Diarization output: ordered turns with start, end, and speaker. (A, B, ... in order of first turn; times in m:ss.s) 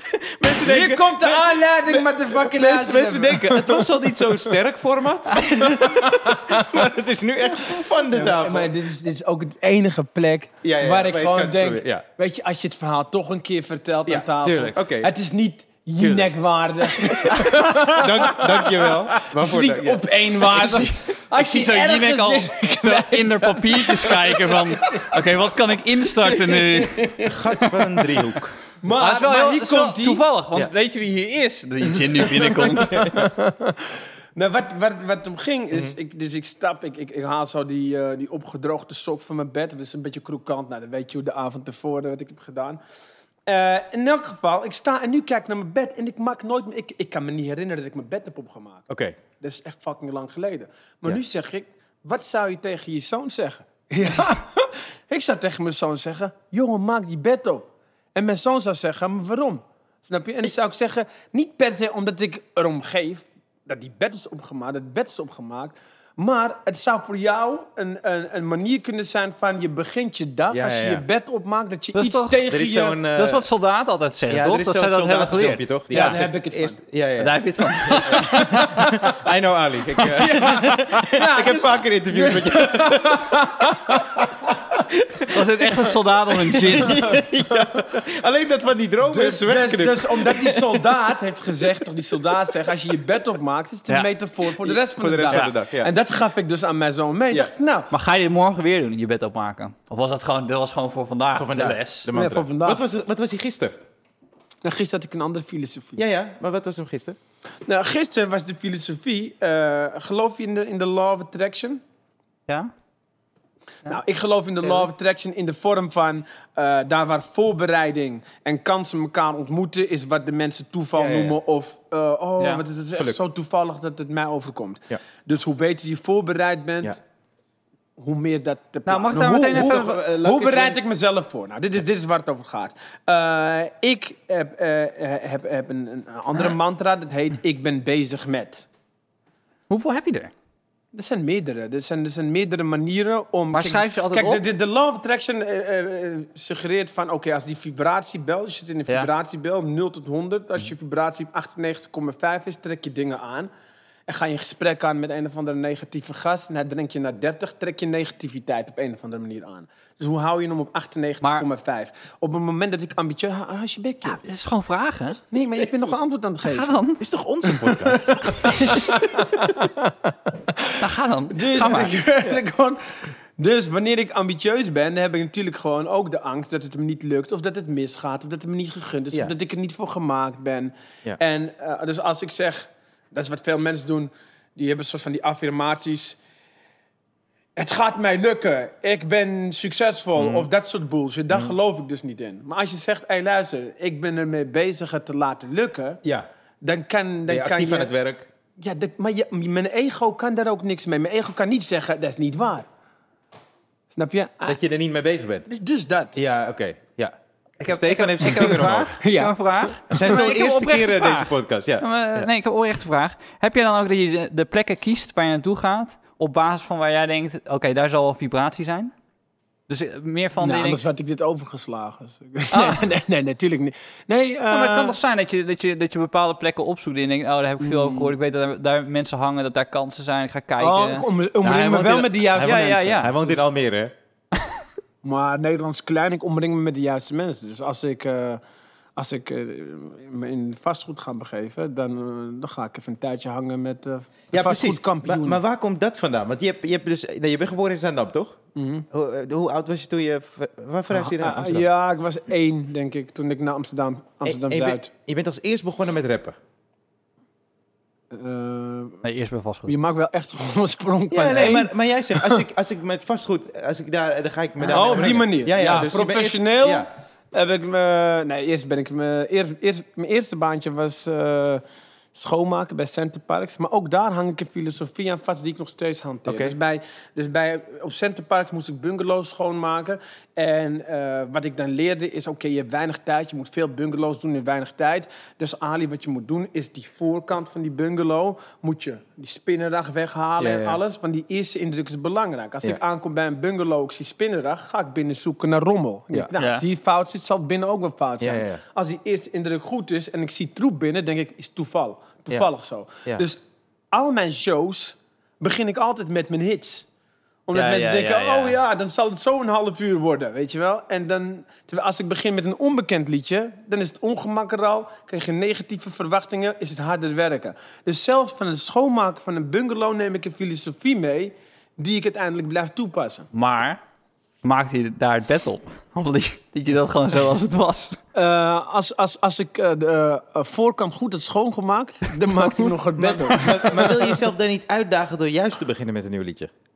0:00.1-0:08.7 A
0:00.5-0:04.5 B
0:05.3-0:06.7 B
0:08.1-0:25.2 B
0:10.6-0:12.0 A
0:14.0-0:15.1 A
0:17.1-0:20.3 A
0:17.4-0:17.8 C
0:20.5-0:27.2 C
0:26.2-0:28.0 B
0:27.2-0:28.5 A
0:28.8-0:30.2 B
0:28.9-0:33.0 C
0:32.1-0:42.8 B
0:32.9-0:33.3 A
0:43.5-1:13.0 B
0:48.9-0:49.2 A
1:10.5-1:11.0 A
1:11.9-1:12.4 C
1:12.5-1:13.4 A
1:13.1-1:16.2 C
1:14.3-1:17.4 A
1:15.9-1:16.8 B
1:17.2-1:19.0 C
1:17.9-1:19.1 B
1:18.0-1:31.0 A
1:20.1-1:24.8 B
1:25.3-1:27.2 C
1:26.9-1:27.3 B
1:29.1-1:37.9 B
1:34.6-1:35.9 A
1:35.3-1:35.5 C
1:37.9-1:42.1 C
1:41.4-1:43.8 A
1:42.1-1:42.8 B
1:44.6-1:46.0 B
1:46.0-1:47.2 A
1:47.6-1:51.8 B
1:53.8-2:07.0 B
2:00.9-2:01.4 A
2:08.0-2:18.6 B
2:08.9-2:10.0 C
2:09.5-2:10.8 A
2:19.7-2:20.3 C
2:20.9-2:33.5 B
2:23.5-2:24.4 C
2:34.1-2:44.2 B
2:44.2-2:45.2 C
2:45.3-2:46.7 B
2:46.4-2:47.0 C
2:47.0-2:49.4 A
2:47.5-2:50.8 B
2:50.8-2:52.0 C
2:51.3-3:06.2 B
3:07.6-3:16.0 B
3:10.2-3:10.5 A
3:16.6-3:17.9 B
3:17.3-3:18.3 A
3:18.6-3:22.6 B
3:23.9-3:24.6 B
3:24.4-3:25.4 A
3:25.4-3:26.2 B
3:26.1-3:29.0 A
3:27.6-3:38.9 C
3:29.0-3:30.2 B
3:29.9-3:32.3 A
3:39.7-3:40.8 C
3:40.4-3:45.0 B
3:42.5-3:42.8 C
3:44.5-3:51.1 C
3:47.6-3:48.1 B
3:50.6-3:53.4 B
3:51.4-3:53.9 A
3:51.7-3:53.2 C
3:55.0-3:58.4 B
3:59.0-4:05.4 B
4:04.3-4:08.4 A
4:08.6-4:08.8 B
4:08.9-4:11.6 A
4:10.9-4:14.9 B
4:14.2-4:16.4 A
4:18.1-4:19.0 B
4:19.0-4:19.7 C
4:19.6-4:22.4 B
4:21.1-4:26.9 A
4:24.6-4:31.6 B
4:32.1-5:03.4 B
4:36.3-4:36.6 A
4:50.4-4:50.8 A
4:56.4-4:56.6 C
4:58.2-4:58.6 A
5:03.9-5:06.9 B
5:07.5-5:23.3 B
5:07.5-5:08.6 C
5:23.3-5:23.8 C
5:24.4-5:28.0 C
5:28.1-5:34.2 B
5:32.4-5:32.7 C
5:33.0-5:36.5 A